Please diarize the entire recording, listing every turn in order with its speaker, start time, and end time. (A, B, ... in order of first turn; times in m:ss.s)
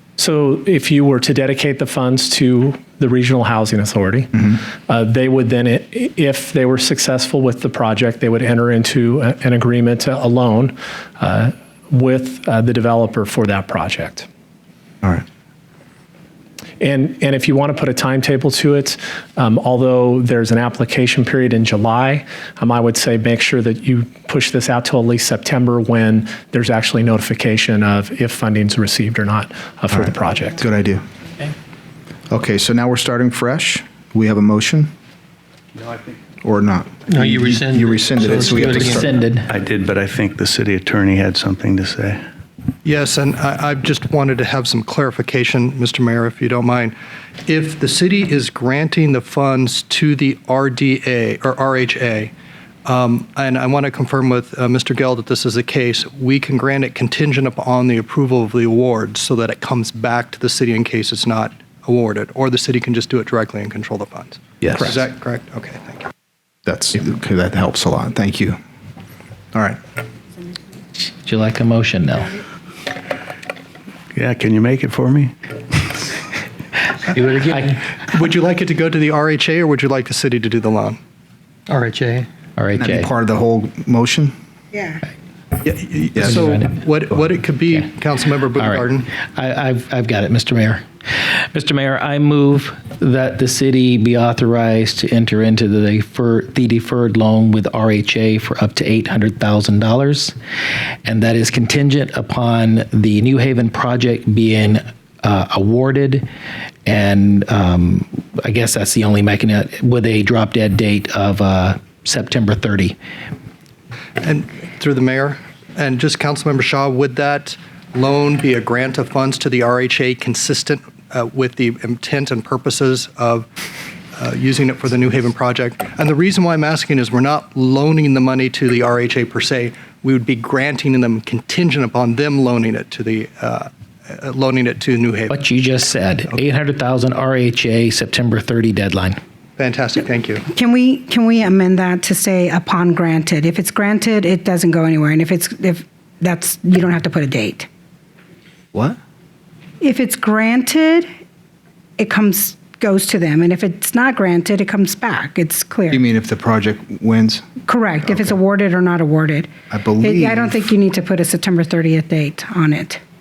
0:00.2-0:14.3 A
0:16.8-0:30.6 A
0:29.9-0:31.0 B
0:32.3-0:34.9 B
0:36.4-0:39.1 B
0:37.1-0:39.2 C
0:39.0-0:39.5 D
0:39.5-0:42.2 E
0:42.8-0:47.0 F
0:47.5-0:52.3 F
0:52.8-1:06.1 F
1:04.6-1:05.0 B
1:06.7-1:08.6 B
1:09.5-1:09.8 B
1:11.2-1:12.4 D
1:14.1-1:15.3 E
1:17.1-1:17.8 C
1:18.0-1:21.0 F
1:21.7-1:22.3 C
1:22.6-1:23.1 D
1:22.8-1:24.3 B
1:25.6-1:29.1 F
1:26.2-1:26.7 D
1:28.6-1:40.3 D
1:41.0-1:46.3 D
1:46.9-1:53.0 D
1:54.2-2:03.5 F
2:04.2-2:15.3 F
2:15.3-2:19.2 D
2:19.6-2:20.5 F
2:20.5-2:27.7 G
2:28.7-2:29.0 B
2:29.8-2:31.1 G
2:32.0-2:36.0 G
2:35.9-2:37.4 B
2:37.7-2:39.5 G
2:39.7-2:40.5 B
2:40.0-2:43.0 G